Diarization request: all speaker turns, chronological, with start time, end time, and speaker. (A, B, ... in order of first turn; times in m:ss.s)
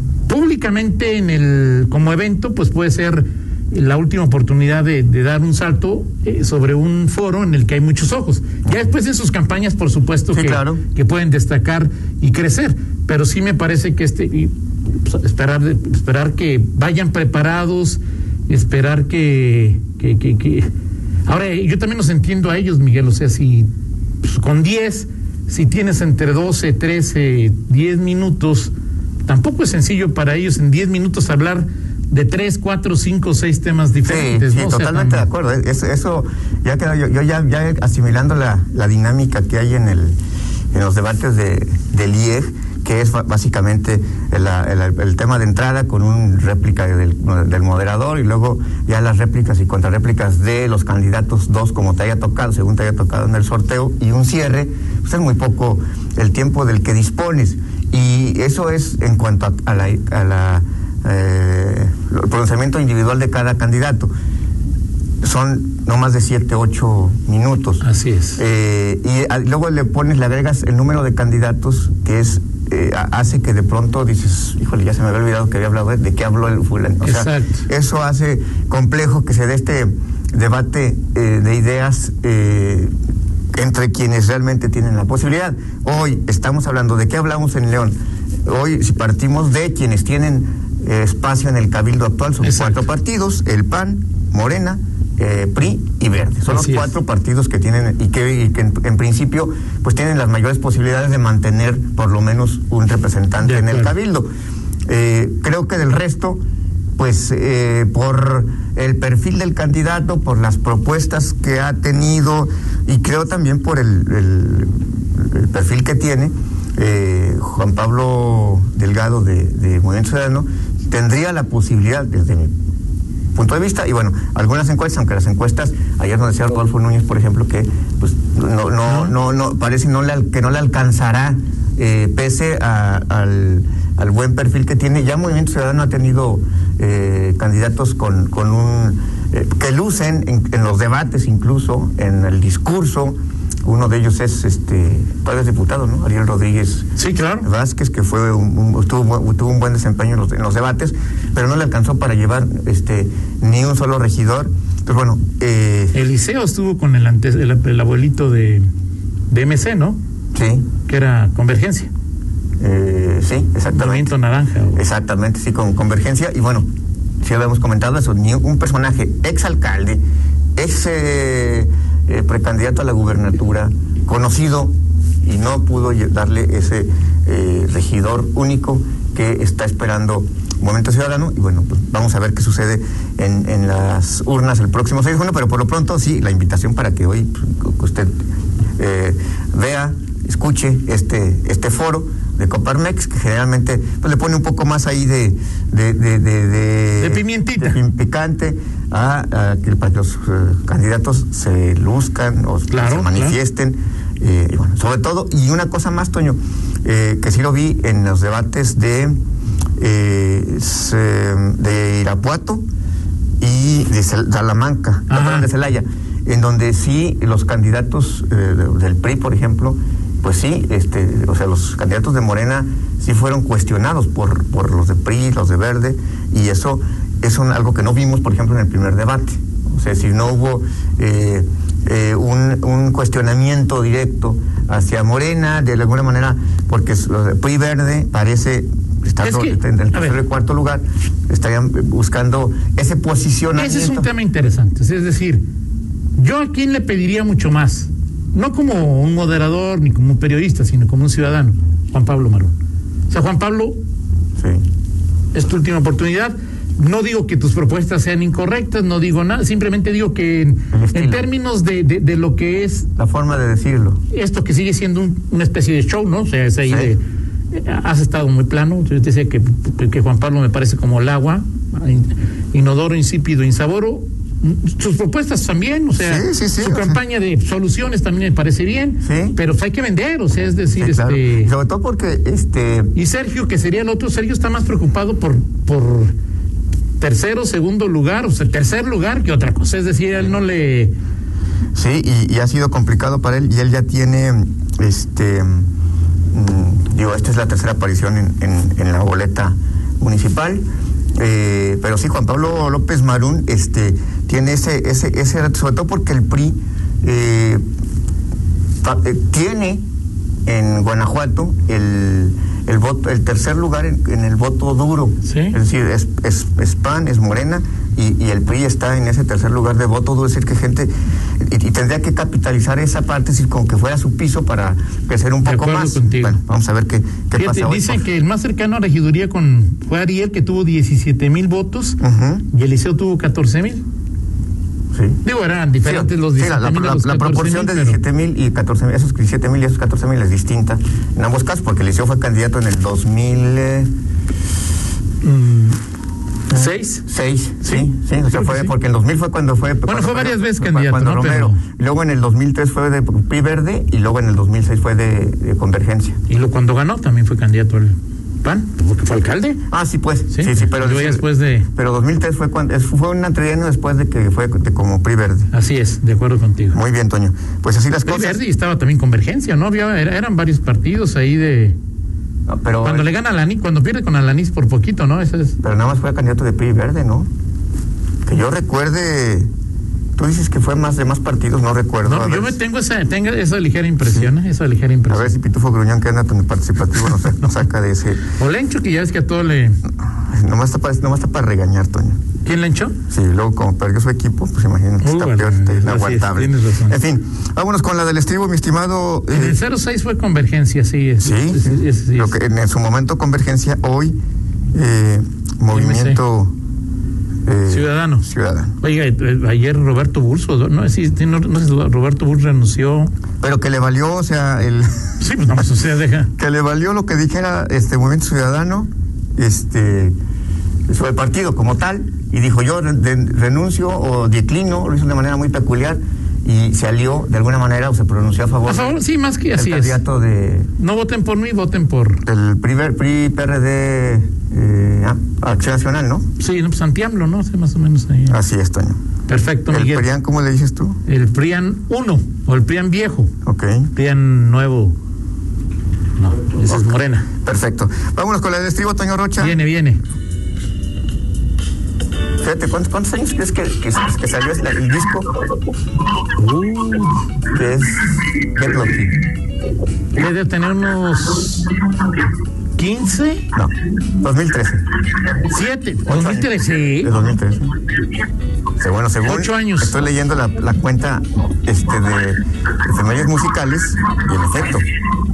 0:00.3-0:20.7 A
0:10.3-0:10.8 B
0:21.3-0:23.7 A
0:24.2-0:28.7 A
0:29.3-0:35.3 A
0:34.0-0:40.2 B
0:40.7-1:04.1 B
1:05.2-1:07.8 B
1:07.8-1:08.4 A
1:08.4-1:22.9 B
1:17.0-1:17.6 A
1:23.6-1:28.0 B
1:28.5-1:44.3 B
1:32.4-1:32.8 A
1:36.4-1:37.0 A
1:43.4-1:44.0 A
1:44.9-1:46.4 B
1:47.0-2:02.5 B
2:03.4-2:26.9 B
2:08.9-2:09.2 A
2:27.0-2:27.5 A
2:27.4-2:36.0 B
2:35.9-2:38.7 A
2:39.3-2:40.0 A
2:40.3-2:40.7 B
2:40.8-2:41.9 A
2:42.6-2:44.2 B
2:43.7-2:44.8 A
2:44.8-2:46.7 B
2:47.2-2:50.0 B
2:50.6-3:08.1 B
3:08.8-3:29.2 B
3:17.0-3:17.8 A
3:22.7-3:23.4 A
3:29.8-3:32.6 B
3:33.4-4:04.1 B
3:35.1-3:35.5 A
3:59.2-4:00.2 A
4:03.5-4:05.4 A
4:06.2-4:12.5 A
4:13.1-4:13.8 A
4:14.4-4:14.7 B
4:15.3-4:22.9 A
4:20.7-4:21.3 B
4:23.0-4:24.0 B
4:24.1-4:41.5 A
4:26.6-4:26.9 B
4:36.0-4:37.0 B
4:39.0-4:39.4 B
4:40.8-4:42.9 B
4:43.0-4:46.1 A
4:47.0-4:50.9 A
4:51.7-4:55.7 B
4:56.3-5:00.6 B
5:01.2-5:07.6 B
5:08.8-5:09.8 B
5:10.5-5:20.9 B
5:15.2-5:15.6 A
5:21.4-5:28.0 B
5:25.4-5:26.4 A
5:27.4-5:33.8 A
5:32.0-5:32.5 B
5:34.9-5:35.2 B
5:35.2-5:38.0 A
5:35.8-5:43.9 B
5:45.2-5:45.8 A
5:46.5-5:56.2 B
5:46.5-5:47.0 A
5:47.6-5:48.7 A
5:49.9-5:51.6 A
5:56.3-5:59.6 A
5:59.7-6:05.5 B
6:00.3-6:01.7 A
6:05.5-6:06.8 A
6:06.7-6:08.4 B
6:08.0-6:11.8 A
6:12.5-6:13.1 B
6:12.8-6:15.6 A
6:15.6-6:17.3 B
6:18.3-6:19.5 B
6:20.2-6:22.6 B
6:22.0-6:25.3 A
6:24.0-6:24.3 B
6:25.1-6:28.2 B
6:28.3-6:29.8 A
6:30.2-6:32.2 B
6:32.4-6:33.0 A
6:33.1-6:39.6 B
6:35.0-6:37.0 A
6:39.3-6:42.4 A
6:41.2-6:44.2 B
6:44.7-6:46.5 B
6:45.7-6:46.2 A
6:47.5-6:48.8 B
6:47.7-6:48.3 A
6:48.8-6:53.1 A
6:53.4-6:55.5 B
6:55.2-6:56.3 A
6:56.4-7:00.2 B
7:00.9-7:09.0 B
7:08.7-7:10.0 A
7:09.6-7:10.7 B
7:10.8-7:12.2 A
7:12.2-7:16.2 B
7:16.4-7:18.4 A
7:18.3-7:19.0 B
7:19.3-7:20.1 A
7:19.7-7:21.0 B
7:21.1-7:23.3 A
7:23.4-7:23.9 B
7:23.9-7:25.0 A
7:26.2-7:27.3 A
7:27.4-7:29.6 B
7:29.4-7:30.0 A
7:32.4-7:35.4 B
7:36.4-7:37.2 A
7:37.5-7:39.2 B
7:40.1-7:41.8 A
7:42.8-7:43.5 A
7:43.5-7:44.8 B
7:45.4-7:47.3 A
7:46.1-7:47.7 B
7:48.8-7:54.9 B
7:49.2-7:50.0 A